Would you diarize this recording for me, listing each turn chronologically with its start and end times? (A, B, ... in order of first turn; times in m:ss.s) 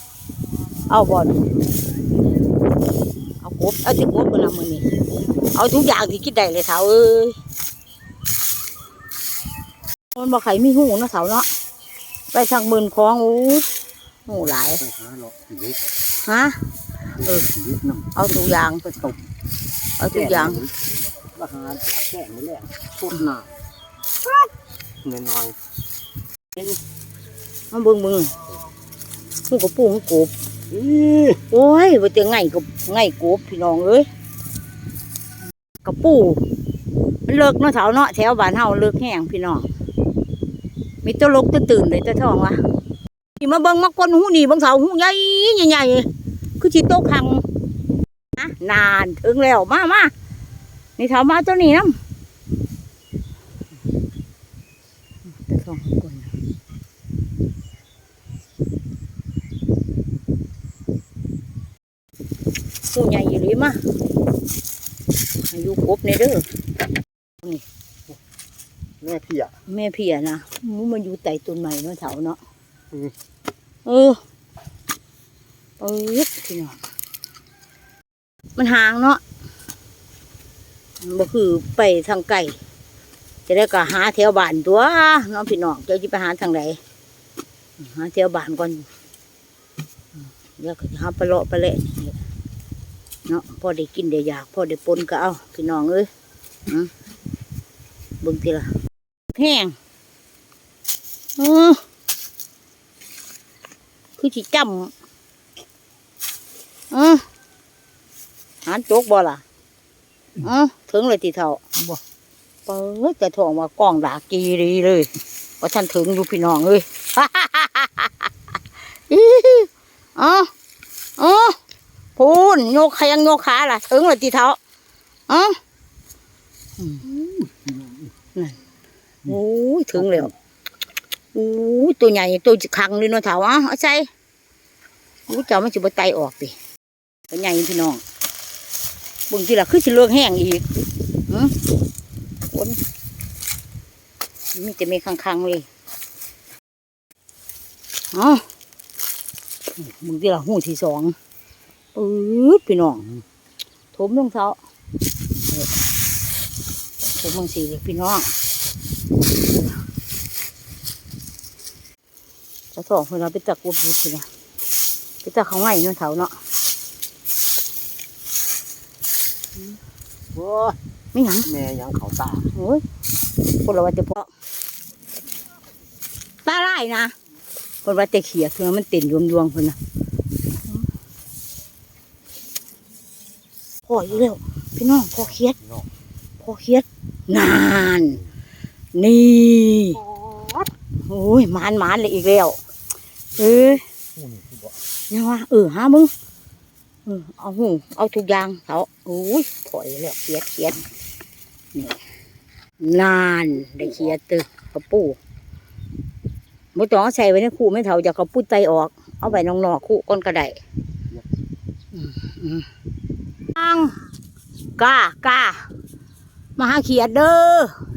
0:00.9-0:01.4 A
0:03.4-0:04.8 A
0:05.5-0:07.4 A
0:10.1-0:11.5 A
0:12.3-0:13.7 A
0:14.2-0:14.8 A
0:14.8-0:15.8 B
0:16.2-0:16.6 A
0:17.2-0:17.5 A
0:17.5-0:18.0 B
0:18.1-0:19.0 A
0:20.0-0:20.6 A
0:20.4-0:20.8 B
0:21.3-0:23.4 B
0:25.0-0:25.6 B
0:27.7-0:28.3 A
0:29.5-0:30.3 A
0:30.7-0:31.4 B
0:31.5-0:34.1 A
0:35.8-0:36.4 A
0:37.2-0:39.7 A
0:41.0-0:42.6 A
0:43.4-0:46.1 A
0:46.6-0:47.4 A
0:48.4-0:50.1 A
0:51.0-0:52.0 A
0:55.4-0:56.3 A
1:02.9-1:03.8 A
1:05.4-1:06.5 A
1:09.0-1:09.5 B
1:09.7-1:12.4 A
1:13.8-1:14.2 A
1:15.8-1:16.8 A
1:18.6-1:19.2 A
1:21.0-1:22.6 A
1:23.5-1:26.8 A
1:27.8-1:28.9 A
1:30.6-1:32.2 A
1:33.2-1:36.1 A
1:36.7-1:36.9 A
1:38.2-1:38.7 A
1:39.3-1:39.8 A
1:41.4-1:41.8 A
1:44.2-1:44.9 A
1:46.9-1:47.2 A
1:48.6-1:49.4 A
1:50.4-1:51.6 A
1:52.6-1:55.1 A
1:55.6-1:58.3 A
1:59.1-2:00.5 A
2:01.2-2:01.6 A
2:02.2-2:04.6 A
2:05.3-2:05.6 A
2:06.8-2:07.1 A
2:07.4-2:07.7 B
2:09.2-2:10.3 A
2:11.3-2:14.1 A
2:15.3-2:16.6 A
2:17.3-2:18.0 A
2:19.3-2:20.6 A
2:21.3-2:21.5 A
2:22.5-2:22.8 A
2:24.5-2:25.7 A
2:28.1-2:28.4 A
2:29.8-2:31.2 A
2:31.9-2:33.1 A
2:33.9-2:34.6 A
2:37.0-2:38.3 A
2:42.7-2:44.3 A
2:45.2-2:46.4 A
2:50.3-2:50.8 B
2:51.1-2:51.5 A
2:51.5-2:52.5 B
2:52.5-2:52.8 A
2:53.6-2:54.3 A
2:56.4-2:57.1 A
2:57.8-2:59.8 A
3:03.9-3:05.6 A
3:06.4-3:08.2 A
3:08.9-3:10.0 A
3:11.0-3:12.6 A
3:13.4-3:13.8 A
3:15.1-3:16.1 A
3:17.0-3:20.8 A
3:21.7-3:22.0 A
3:22.8-3:25.2 A
3:26.7-3:30.6 A
3:31.9-3:32.7 A
3:33.5-3:34.0 A
3:34.8-3:35.7 A
3:36.6-3:37.8 A